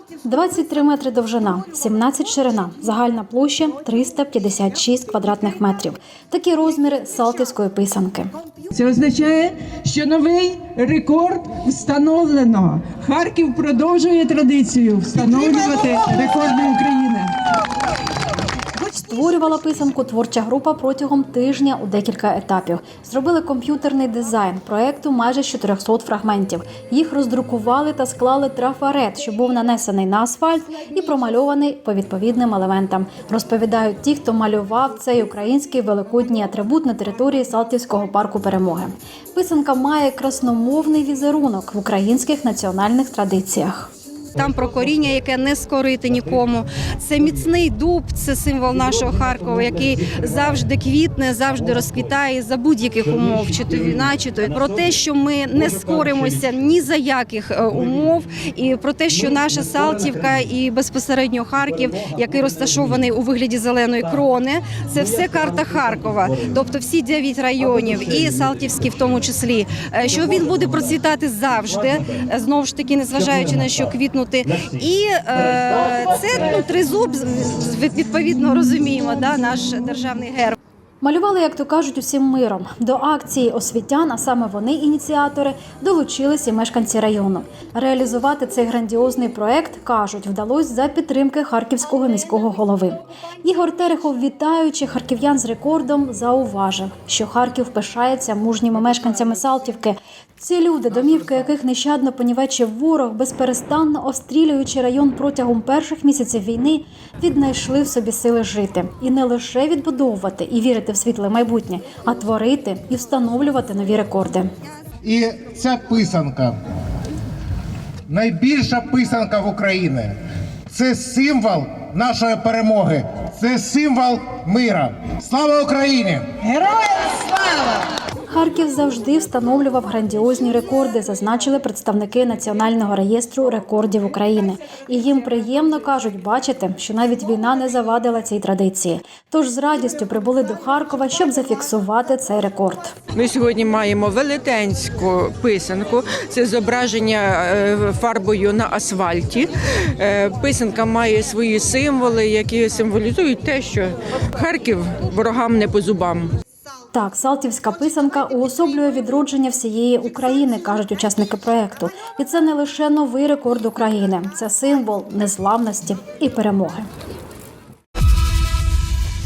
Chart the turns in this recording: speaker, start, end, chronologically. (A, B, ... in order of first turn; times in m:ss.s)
0:00.2-0:08.3 A
0:08.7-0:17.3 B
0:18.9-0:43.9 A
0:44.4-1:20.6 C
1:21.0-1:54.5 A
1:55.0-1:56.6 D
1:58.1-2:00.2 D
2:00.7-2:06.3 D
2:08.3-2:23.0 A
2:23.1-2:36.3 E
2:36.9-2:46.9 A